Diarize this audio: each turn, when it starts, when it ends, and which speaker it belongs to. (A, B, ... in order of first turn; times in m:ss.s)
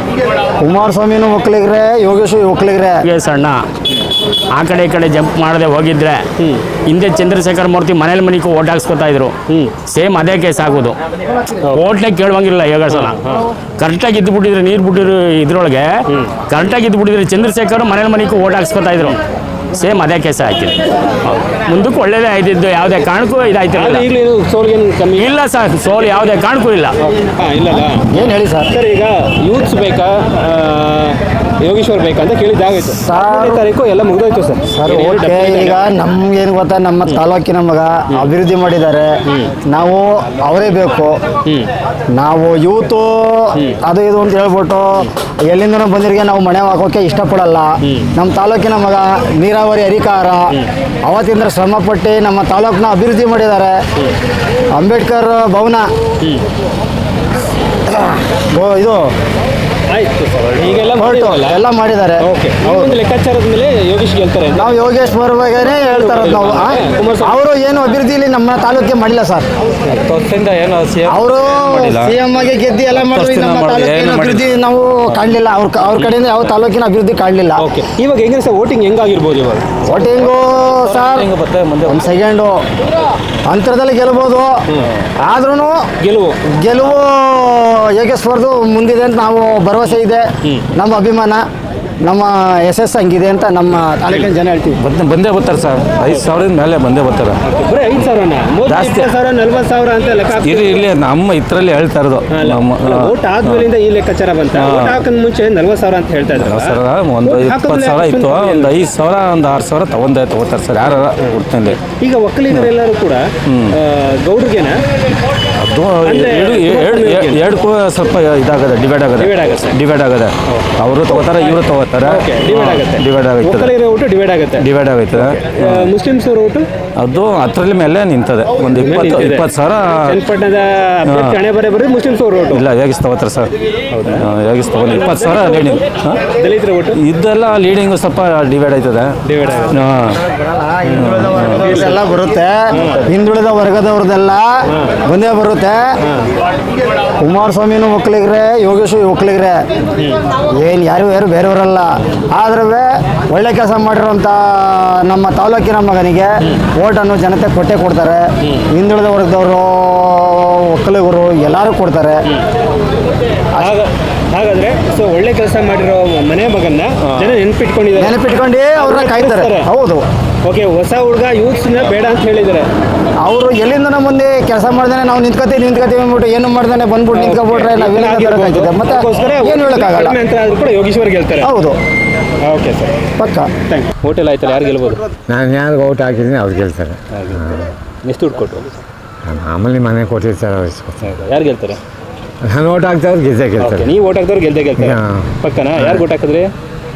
0:00.6-0:03.0 A
0:03.0-0:03.6 B
0:04.5-0:06.2 B
0:06.4-0:06.6 C
0:06.9-0:09.3 B
0:09.5-0:09.7 C
0:09.9-0:11.0 B
0:11.7-0:15.9 B
0:12.9-0:13.4 C
0:16.1-0:16.3 C
0:16.5-0:19.2 B
0:19.7-0:24.0 B
0:23.8-0:25.3 C
0:25.1-0:27.0 B
0:27.0-0:28.1 C
0:28.1-0:28.7 A
0:28.7-0:35.9 C
0:32.9-0:33.6 A
0:34.7-0:39.1 A
0:39.3-0:39.5 C
0:39.7-0:41.2 A
0:42.1-0:50.5 A
0:47.8-0:48.1 C
0:51.0-0:53.8 A
0:54.7-0:55.9 A
0:57.9-0:59.1 A
0:59.9-1:01.6 C
1:01.0-1:03.0 A
1:02.2-1:04.7 C
1:04.6-1:09.5 A
1:05.7-1:07.4 C
1:10.0-1:12.2 D
1:11.1-1:17.6 A
1:12.9-1:14.5 D
1:17.6-1:19.8 C
1:19.8-1:21.3 A
1:19.9-1:22.1 D
1:21.8-1:22.6 A
1:23.5-1:24.6 A
1:25.2-1:25.8 A
1:26.0-1:26.4 C
1:26.6-1:31.4 A
1:32.0-1:34.8 A
1:34.8-1:37.4 D
1:36.1-1:36.3 C
1:37.4-1:40.8 C
1:38.7-1:39.1 D
1:40.4-1:43.6 D
1:42.3-1:48.8 C
1:44.5-1:45.0 D
1:46.3-1:51.8 D
1:51.0-1:54.8 C
1:53.5-1:53.8 D
1:55.6-2:03.7 D
1:56.0-1:57.5 C
1:59.2-1:59.8 C
2:00.5-2:01.3 C
2:02.0-2:06.7 C
2:04.6-2:05.9 D
2:07.0-2:10.2 D
2:08.8-2:09.5 C
2:10.0-2:12.7 C
2:11.1-2:11.4 D
2:12.5-2:13.5 D
2:13.9-2:14.3 C
2:14.2-2:16.3 D
2:14.9-2:17.0 C
2:16.9-2:19.1 D
2:19.2-2:19.8 C
2:19.7-2:20.2 D
2:20.3-2:25.8 A
2:20.8-2:22.0 C
2:20.9-2:21.7 D
2:22.8-2:23.0 C
2:24.7-2:25.0 C
2:26.0-2:26.3 C
2:27.2-2:29.6 A
2:30.4-2:42.2 A
2:43.6-2:48.2 C
2:47.0-2:47.3 D
2:47.9-2:50.0 A
2:48.8-2:49.7 C
2:50.4-2:52.7 C
2:53.2-3:00.2 A
2:57.1-3:01.5 C
3:01.4-3:01.8 A
3:02.4-3:03.0 C
3:03.2-3:03.5 A
3:03.7-3:05.0 C
3:05.3-3:07.7 E
3:07.1-3:07.4 C
3:08.0-3:08.7 C
3:09.2-3:11.1 E
3:11.0-3:11.8 C
3:12.4-3:13.9 E
3:13.6-3:16.5 C
3:14.8-3:15.3 E